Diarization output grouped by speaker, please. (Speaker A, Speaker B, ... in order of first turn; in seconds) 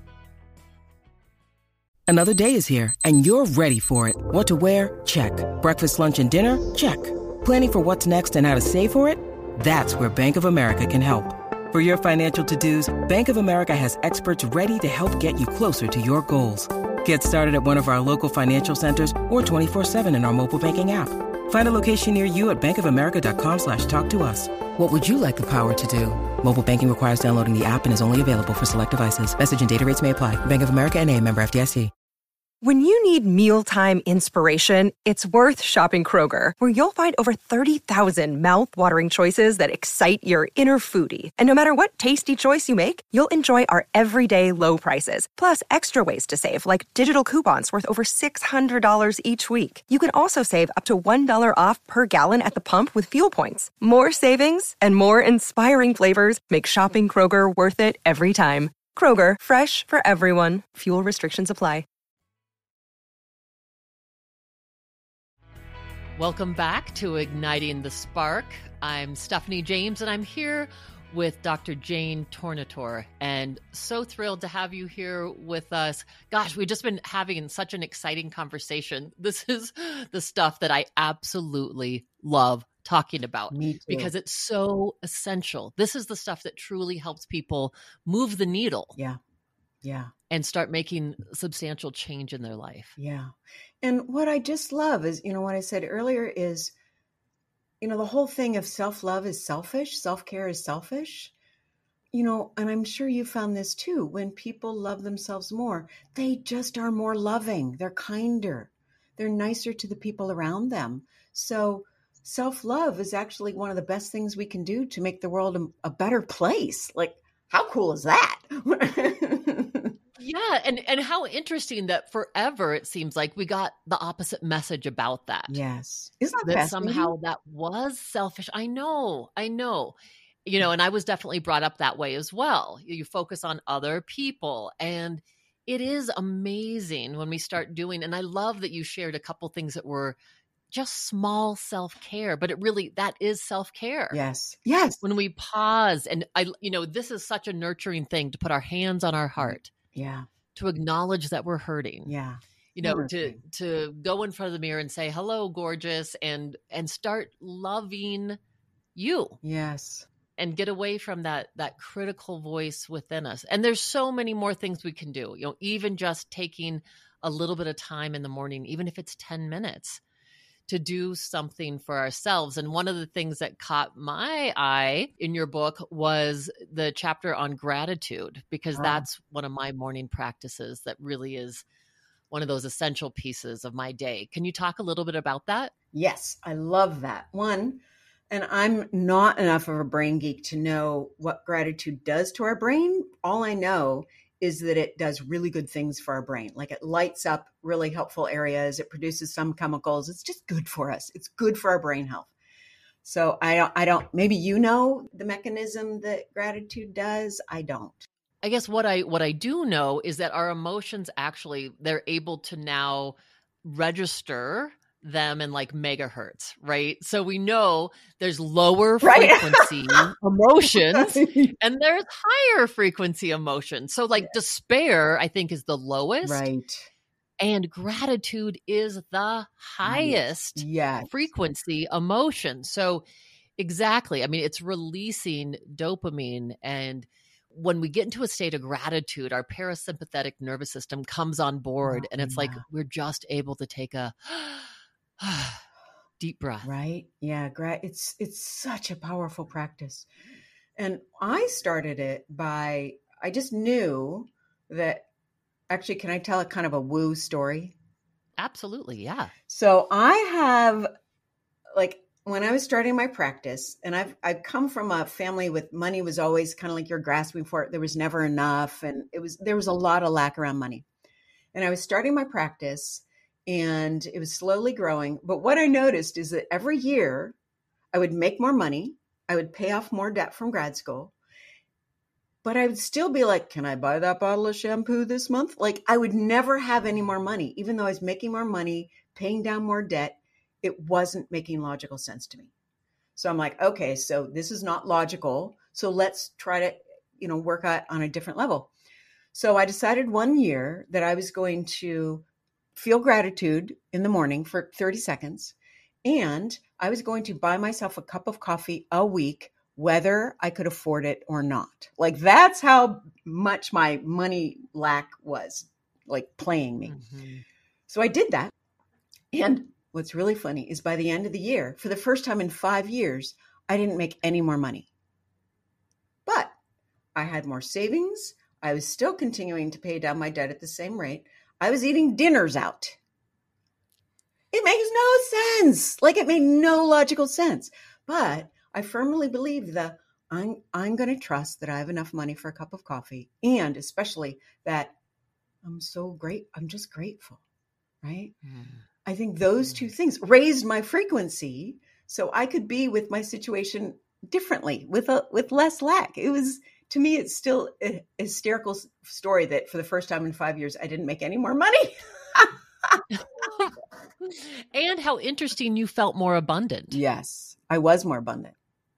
Speaker A: 2.1-31.9
Speaker B: 32.6-61.9
Speaker C: 66.2-89.0, 90.3-93.0, 120.2-125.6, 126.4-140.2, 140.7-144.2, 145.0-149.7, 150.5-152.1, 152.7-158.4, 158.9-159.4, 160.4-170.0, 170.7-181.6, 182.3-185.7, 208.4-226.5, 227.4-233.0, 233.6-245.6, 246.2-246.7, 258.4-259.3, 316.8-317.4, 348.4-348.8, 363.4-363.7, 364.2-367.0
Speaker D: 83.5-84.1, 89.8-90.1, 93.0-96.7, 97.8-101.3, 102.1-120.0, 125.5-127.1, 144.1-145.0, 149.4-150.3, 152.1-153.4, 159.4-160.1, 178.7-179.1, 185.9-202.3, 203.0-208.1, 219.0-220.1, 220.9-221.5, 226.2-226.9, 229.8-231.1, 241.8-242.6, 246.6-250.1, 250.8-255.1, 255.7-257.7, 259.5-260.9, 261.7-270.9, 271.5-277.4, 277.9-281.1, 282.4-292.5, 293.1-298.7, 299.3-317.0, 317.9-318.5, 319.3-324.9, 326.2-326.6, 327.1-333.0, 334.5-344.9, 345.6-347.4, 348.0-348.3, 349.0-363.0, 366.9-368.5